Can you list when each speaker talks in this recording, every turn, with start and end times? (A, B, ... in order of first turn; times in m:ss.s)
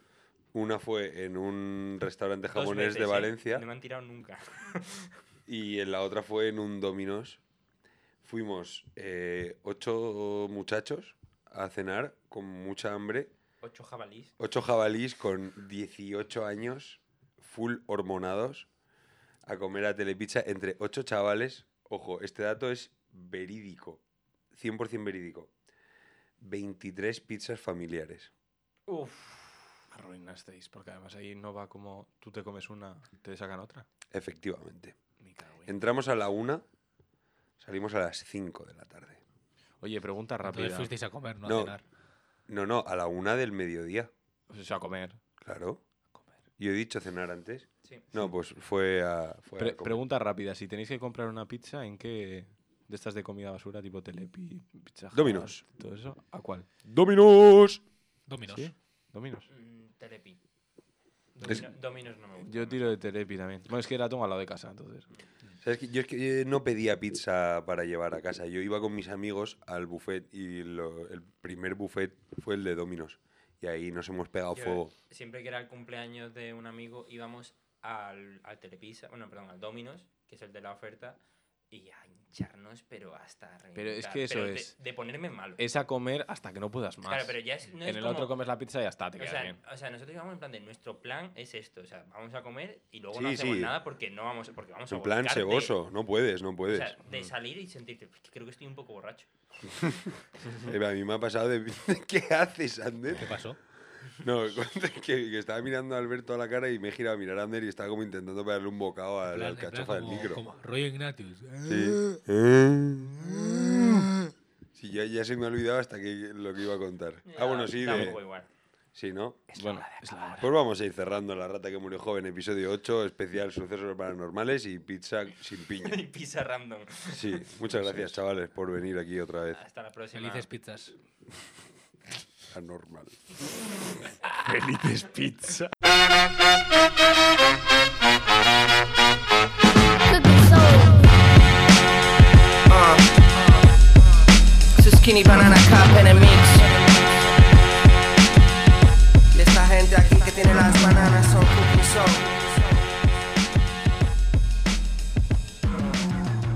0:00.5-0:03.6 A
0:02.5-0:05.1 B
0:05.5-0:07.4 A
0:08.2-0:13.3 A
0:13.6-0:14.3 B
0:14.4-0:18.7 A
0:19.5-0:24.0 A
0:24.5-0:25.5 A
0:26.4-0:28.3 A
0:28.9-0:29.7 B
0:29.9-0:33.8 C
0:34.1-0:35.0 A
0:35.2-0:35.7 C
0:35.6-0:36.6 A
0:37.6-0:39.2 A
0:39.8-0:40.9 C
0:40.4-0:41.8 D
0:41.4-0:41.8 A
0:42.5-0:44.1 A
0:44.5-0:45.2 C
0:45.4-0:45.8 A
0:46.6-0:50.0 A
0:49.6-0:56.7 C
0:55.1-0:55.6 A
0:56.8-0:57.8 A
0:58.3-0:58.7 D
0:58.5-0:59.5 C
0:59.5-1:00.4 B
1:01.3-1:02.9 B
1:02.4-1:05.1 C
1:05.6-1:14.9 A
1:14.5-1:25.6 B
1:23.7-1:24.7 C
1:25.6-1:29.6 C
1:27.0-1:28.4 B
1:29.2-1:35.8 B
1:33.1-1:33.7 A
1:34.9-1:37.0 A
1:36.7-1:39.3 B
1:39.8-1:40.1 A
1:40.6-1:43.4 A
1:43.1-1:43.6 D
1:44.2-1:50.4 A
1:49.2-1:52.2 D
1:51.7-1:54.1 A
1:54.7-1:58.2 A
1:57.3-1:58.5 B
1:57.9-1:58.2 C
1:58.9-1:59.5 A
1:59.5-2:00.4 D
1:59.5-2:00.5 C
2:00.4-2:06.0 A
2:05.6-2:07.4 B
2:07.1-2:09.6 A
2:09.5-2:10.5 B
2:10.1-2:11.0 D
2:12.5-2:13.2 A
2:14.2-2:15.7 C
2:24.9-2:26.6 E
2:29.4-2:32.2 E